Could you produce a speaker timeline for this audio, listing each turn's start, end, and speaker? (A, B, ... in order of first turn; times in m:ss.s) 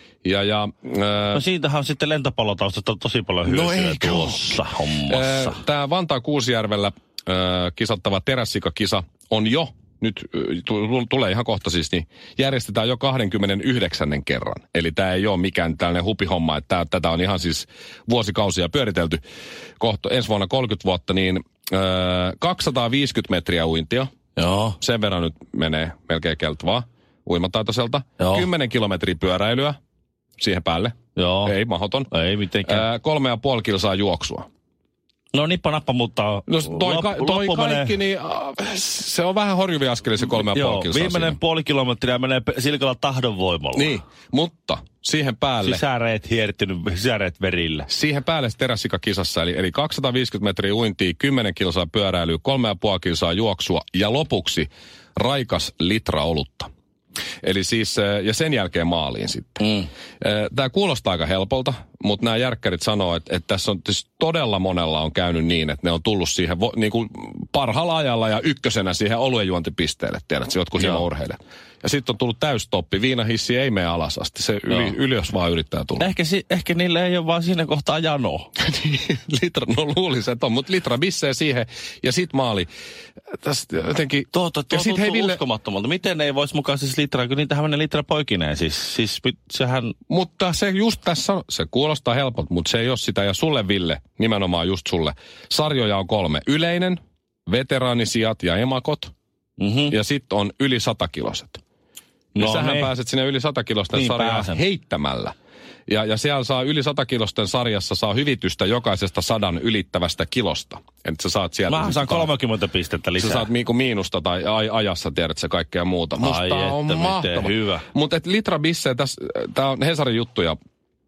0:00.2-0:01.4 A
0:01.3-0:05.6 B
0:03.5-0:19.2 A
0:19.8-0:24.1 A
0:24.4-0:24.8 B
0:24.8-0:29.8 A
0:28.2-0:28.5 B
0:30.4-0:32.1 A
0:31.2-0:31.6 B
0:32.1-0:32.8 B
0:32.7-0:34.5 A
0:35.3-0:38.0 B
0:36.5-0:41.4 A
0:40.3-0:44.0 B
0:43.8-0:45.8 A
0:45.6-0:47.9 B
0:47.9-0:56.7 A
0:57.4-1:16.1 A
1:16.0-1:18.5 B
1:18.6-1:22.7 A
1:23.4-1:25.4 A
1:24.3-1:30.0 B
1:30.1-1:39.1 A
1:39.6-1:40.0 B
1:39.9-1:41.6 A
1:42.4-1:42.9 B
1:42.4-1:45.4 A
1:43.9-1:44.6 B
1:45.9-1:52.3 A
1:51.7-1:53.5 B
1:53.2-2:00.6 A
1:56.2-1:57.8 B